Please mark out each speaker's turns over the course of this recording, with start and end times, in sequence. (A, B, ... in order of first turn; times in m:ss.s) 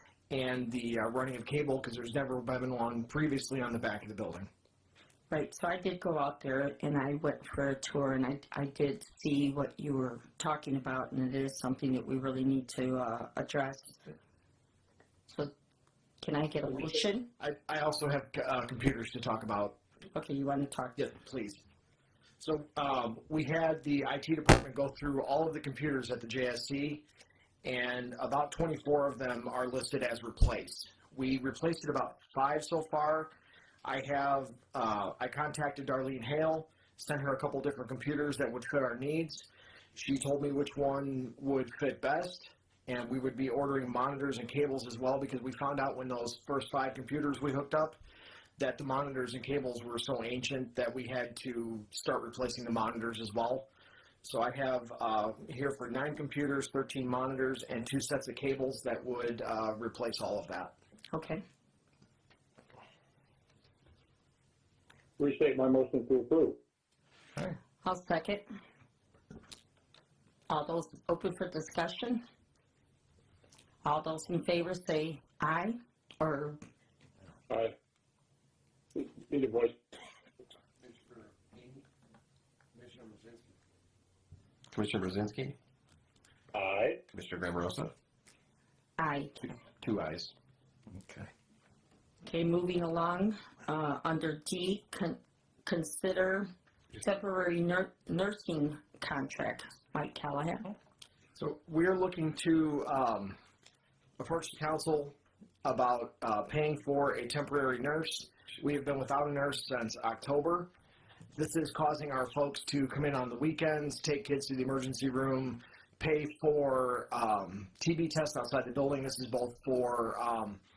0:00.3-0:04.5 A
0:05.3-0:14.0 B
0:16.2-0:17.2 B
0:16.7-0:19.8 A
0:20.1-0:21.0 B
0:21.0-0:21.6 A
0:22.4-0:27.0 A
0:27.6-0:33.3 A
0:33.8-0:48.0 A
0:48.6-0:53.7 A
0:54.2-1:00.7 A
1:01.1-1:01.4 B
1:05.2-1:06.6 C
1:07.8-1:08.4 B
1:10.5-1:12.2 B
1:13.8-1:16.6 B
1:17.5-1:17.7 C
1:18.9-1:19.8 C
1:20.8-1:21.8 D
1:22.8-1:23.4 D
1:24.7-1:25.6 D
1:26.5-1:27.0 C
1:27.1-1:27.9 D
1:29.0-1:29.4 B
1:29.8-1:30.3 D
1:31.0-1:31.3 D
1:32.2-1:40.7 B
1:41.4-1:43.4 A
1:44.2-1:50.7 A
1:51.3-2:00.6 A